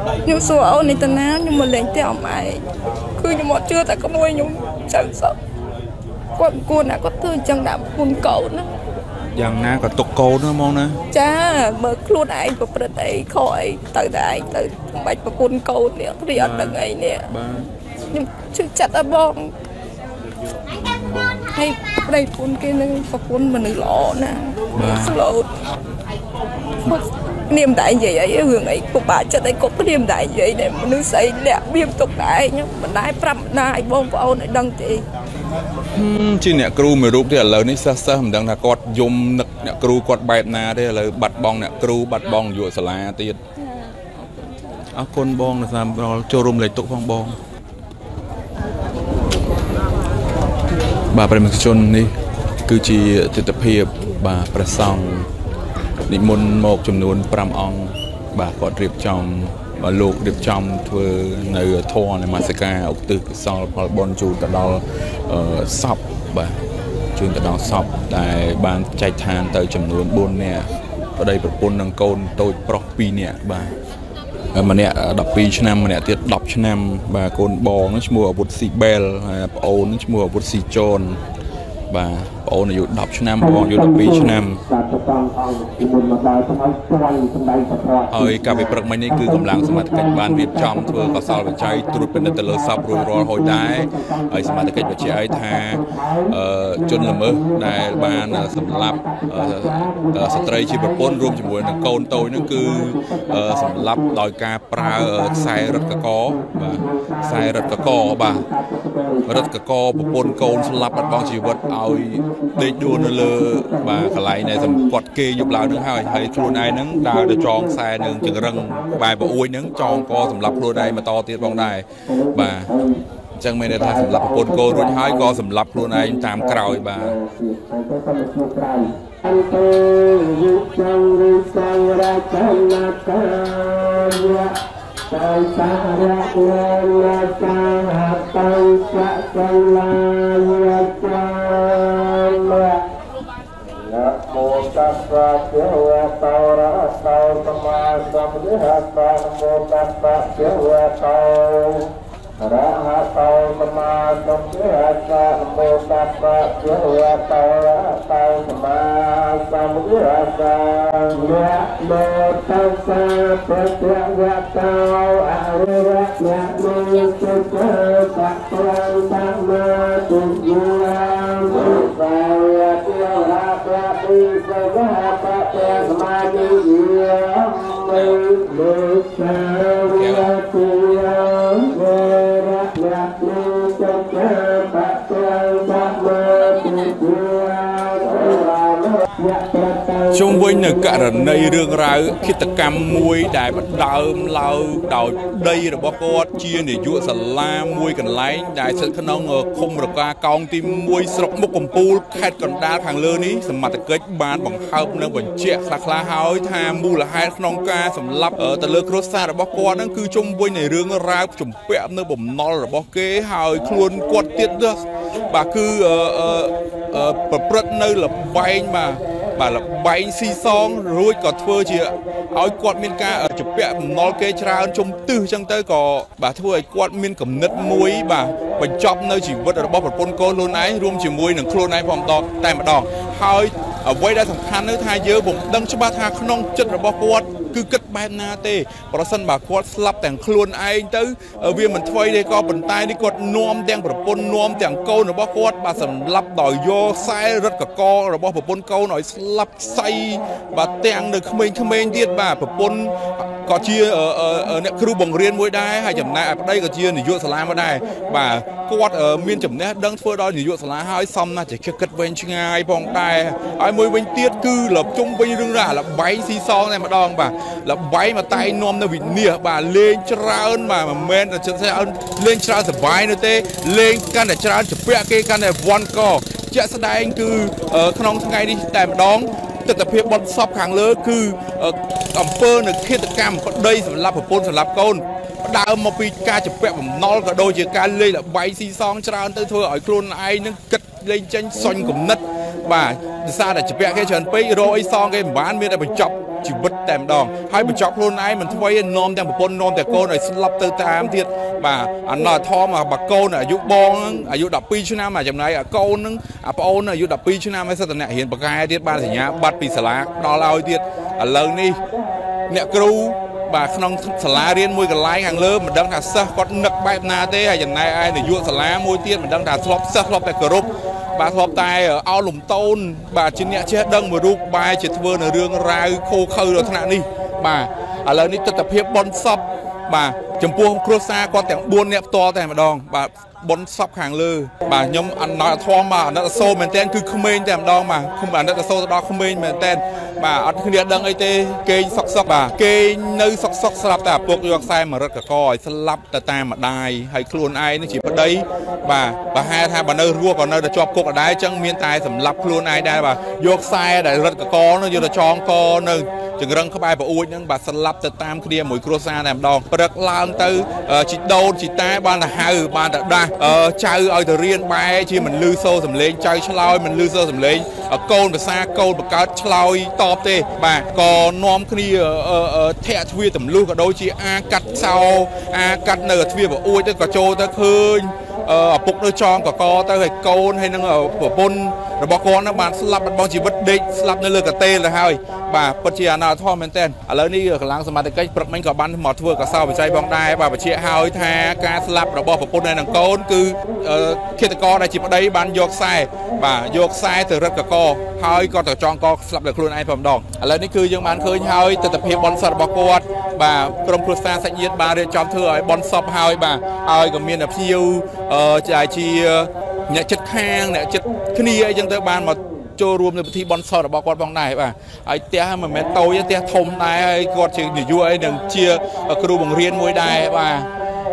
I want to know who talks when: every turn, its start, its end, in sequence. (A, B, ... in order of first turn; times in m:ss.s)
0:00.2-0:02.6 A
0:03.2-0:05.3 A
0:06.4-0:08.7 A
0:09.3-0:11.0 B
0:11.1-0:17.3 A
0:16.3-0:17.7 B
0:18.1-0:19.5 A
0:20.7-0:21.5 B
0:21.5-0:25.5 A
0:24.7-0:25.2 B
0:26.8-0:35.0 A
0:35.9-0:43.4 B
0:43.6-0:44.8 A
0:44.9-0:47.4 B
0:51.1-0:52.1 B
0:52.6-0:55.3 B
0:56.1-1:06.6 B
1:07.1-1:13.7 B
1:14.5-1:21.2 B
1:21.9-1:24.6 B
1:23.4-1:36.3 C
1:28.1-1:48.5 B
1:36.8-1:44.1 C
1:45.2-1:49.4 C
1:49.2-2:02.7 B
1:50.1-1:50.9 C
1:51.5-1:54.0 C
1:55.7-1:57.8 C
1:59.7-2:00.9 C
2:02.1-2:03.0 C
2:03.4-2:07.2 B
2:03.8-2:14.6 C
2:15.1-2:22.8 C
2:23.6-3:10.3 C
2:57.9-2:58.2 B
2:59.8-3:00.3 B
3:10.1-5:11.8 B
5:12.5-7:00.7 B